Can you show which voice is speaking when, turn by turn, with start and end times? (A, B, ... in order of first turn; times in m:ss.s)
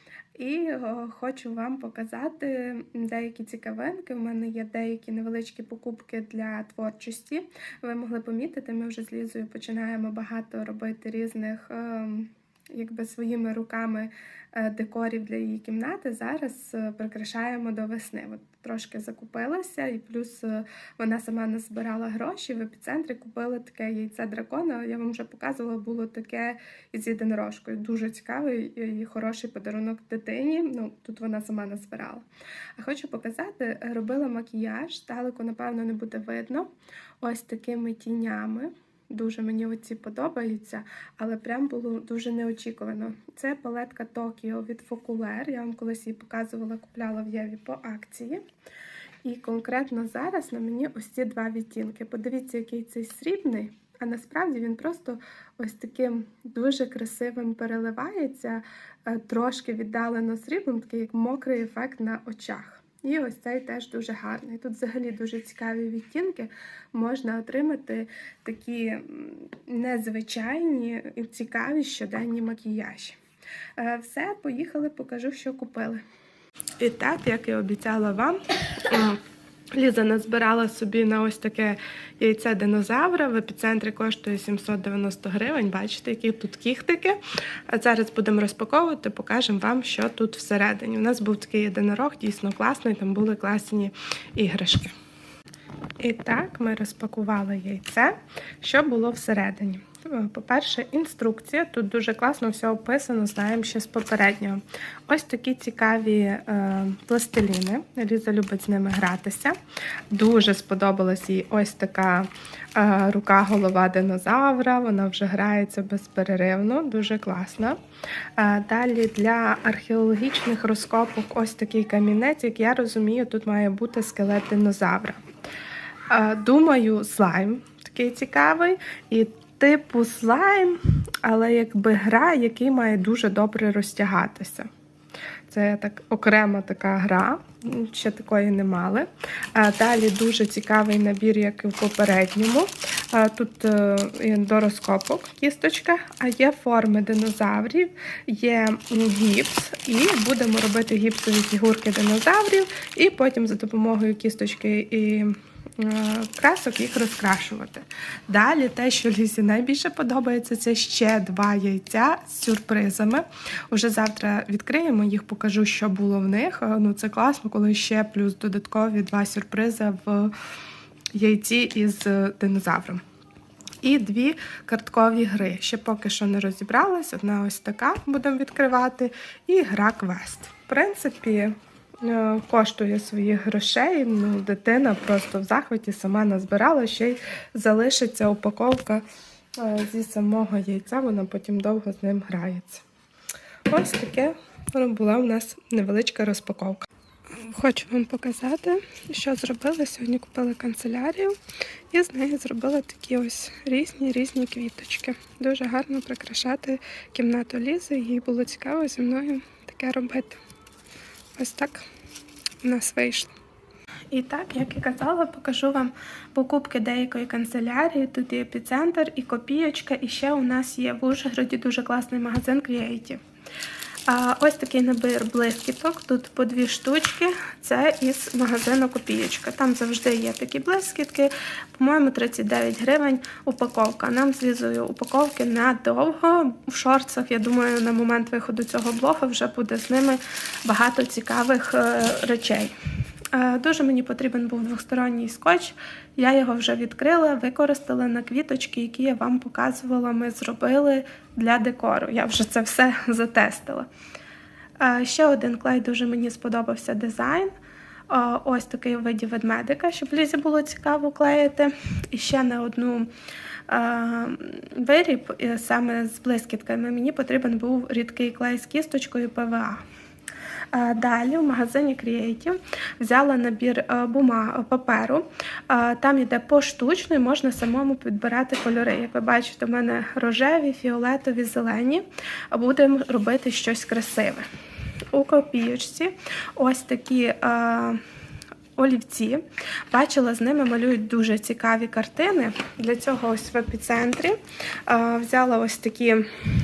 0:00.4-0:32.2 A
0:32.8-0:36.7 A
0:37.2-0:48.4 A
0:49.2-1:13.2 A
1:13.8-1:16.0 A
1:16.8-1:19.2 A
1:19.7-1:27.2 A
1:27.7-1:34.9 A
1:36.0-1:49.6 A
1:50.1-1:57.8 A
1:58.4-2:05.2 A
2:06.1-2:14.7 A
2:15.5-2:50.3 A
2:51.1-2:53.0 A
2:53.8-3:09.0 A
3:09.6-3:12.8 A
3:13.7-3:21.4 A
3:21.9-3:30.4 A
3:31.4-3:31.9 A
3:32.6-3:33.3 A
3:34.1-3:43.2 A
3:44.1-4:02.7 A
4:03.3-4:13.9 A
4:14.8-4:17.5 A
4:18.1-4:23.1 A
4:23.7-4:29.8 A
4:30.7-4:44.5 A
4:45.1-4:48.0 A
4:48.8-4:56.3 A